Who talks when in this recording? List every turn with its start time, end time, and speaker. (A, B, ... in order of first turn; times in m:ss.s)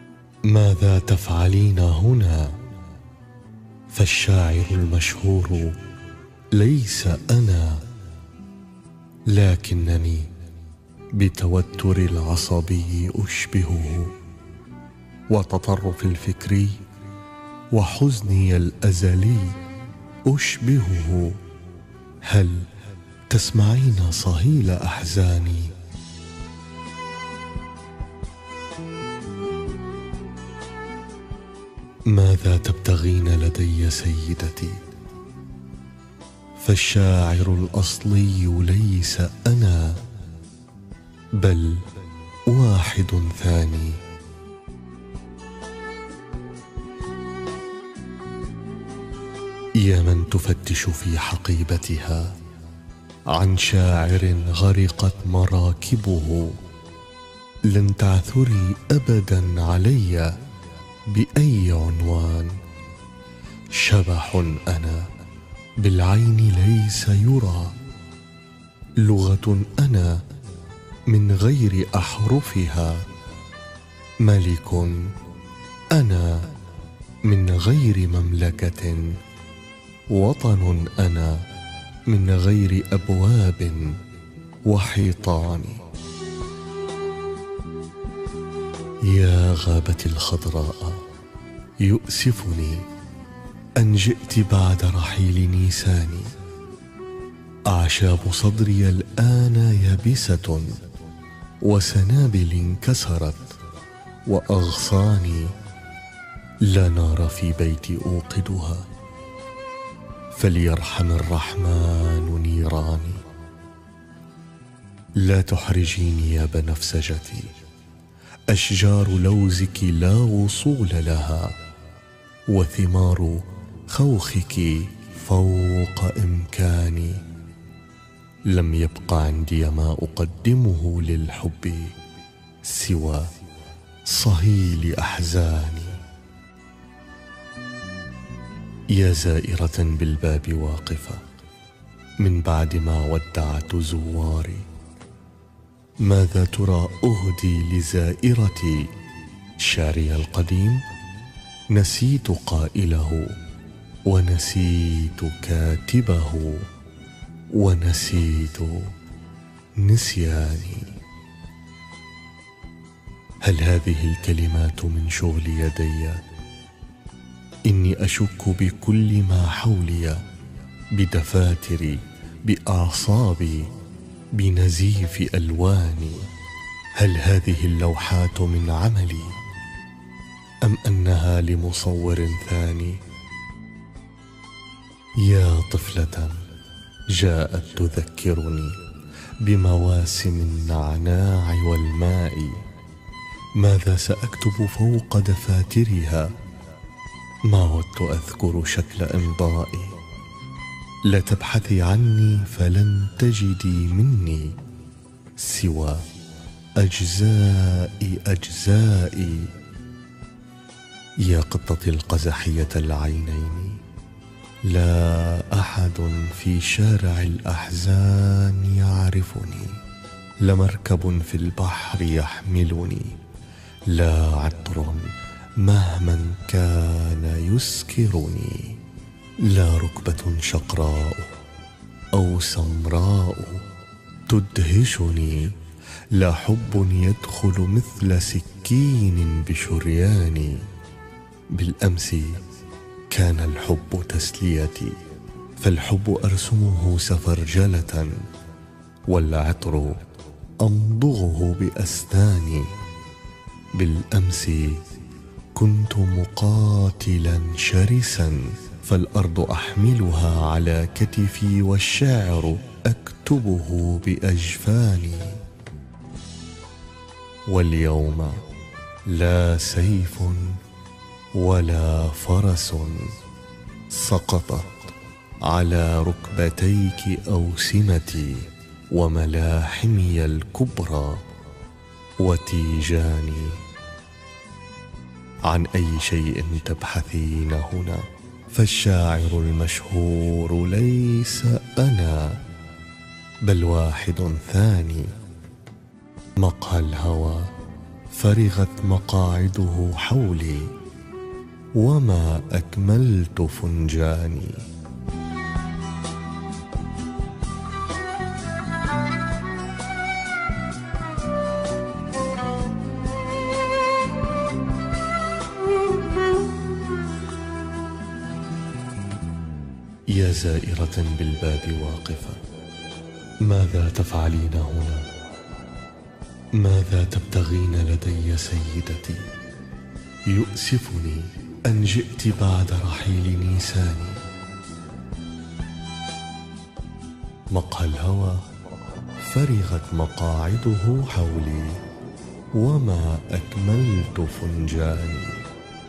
0:00.5-0:02.6 A
0:03.9-0:05.8 A
0:06.5-0:07.8 A
0:09.3-0:10.3 A
0:11.1-0:14.1 A
0:15.3-0:16.8 A
0:17.7-0:19.6 A
0:20.2-0:21.4 A
0:22.2-0:22.7 A
0:23.3-0:25.8 A
0:32.1-0:34.8 A
0:36.6-0:40.0 A
0:41.4-0:41.9 A
0:42.5-0:44.0 A
0:49.8-0:52.4 A
0:53.3-0:56.6 A
0:57.7-1:00.4 A
1:01.1-1:02.6 A
1:03.7-1:05.1 A
1:05.8-1:07.8 A
1:09.0-1:10.2 A
1:11.1-1:13.1 A
1:14.2-1:15.1 A
1:15.9-1:16.5 A
1:17.2-1:19.2 A
1:20.1-1:21.4 A
1:22.1-1:24.0 A
1:24.7-1:25.8 A
1:29.1-1:31.0 A
1:31.8-1:32.8 A
1:33.8-1:36.4 A
1:37.7-1:40.7 A
1:41.6-1:43.6 A
1:44.3-1:45.6 A
1:46.6-1:48.9 A
1:50.3-1:53.2 A
1:55.2-1:57.5 A
1:58.5-2:01.6 A
2:02.5-2:07.2 A
2:08.5-2:12.0 A
2:12.6-2:13.3 A
2:14.1-2:16.0 A
2:18.9-2:21.2 A
2:22.2-2:24.7 A
2:26.0-2:28.9 A
2:29.6-2:30.8 A
2:31.7-2:33.4 A
2:34.1-2:36.7 A
2:37.5-2:38.9 A
2:39.8-2:41.0 A
2:43.4-2:46.2 A
2:47.7-2:50.2 A
2:50.9-2:53.7 A
2:54.3-2:56.3 A
2:57.0-2:59.4 A
3:00.6-3:03.0 A
3:05.2-3:06.4 A
3:07.1-3:08.8 A
3:09.4-3:12.6 A
3:13.6-3:16.3 A
3:17.5-3:20.0 A
3:21.0-3:24.6 A
3:25.4-3:26.0 A
3:26.8-3:29.5 A
3:31.2-3:33.8 A
3:34.6-3:39.8 A
3:40.4-3:43.2 A
3:43.9-3:48.8 A
3:49.4-3:51.3 A
3:52.1-3:53.6 A
3:54.3-3:55.6 A
3:56.1-4:00.6 A
4:01.5-4:02.4 A
4:03.1-4:05.0 A
4:05.6-4:08.2 A
4:09.1-4:10.1 A
4:10.6-4:12.7 A
4:13.7-4:14.8 A
4:15.6-4:25.4 A
4:27.5-4:28.4 A
4:29.1-4:30.6 A
4:31.3-4:33.1 A
4:33.9-4:34.9 A
4:35.4-4:41.2 A
4:42.2-4:43.6 A
4:45.5-4:52.4 A
4:53.4-4:55.1 A
4:56.4-4:57.5 A
4:58.1-5:00.7 A
5:01.8-5:04.7 A
5:20.1-5:22.4 A
5:23.4-5:25.1 A
5:26.6-5:29.3 A
5:30.3-5:34.2 A
5:37.5-5:38.4 A
5:39.2-5:41.8 A
5:42.6-5:45.4 A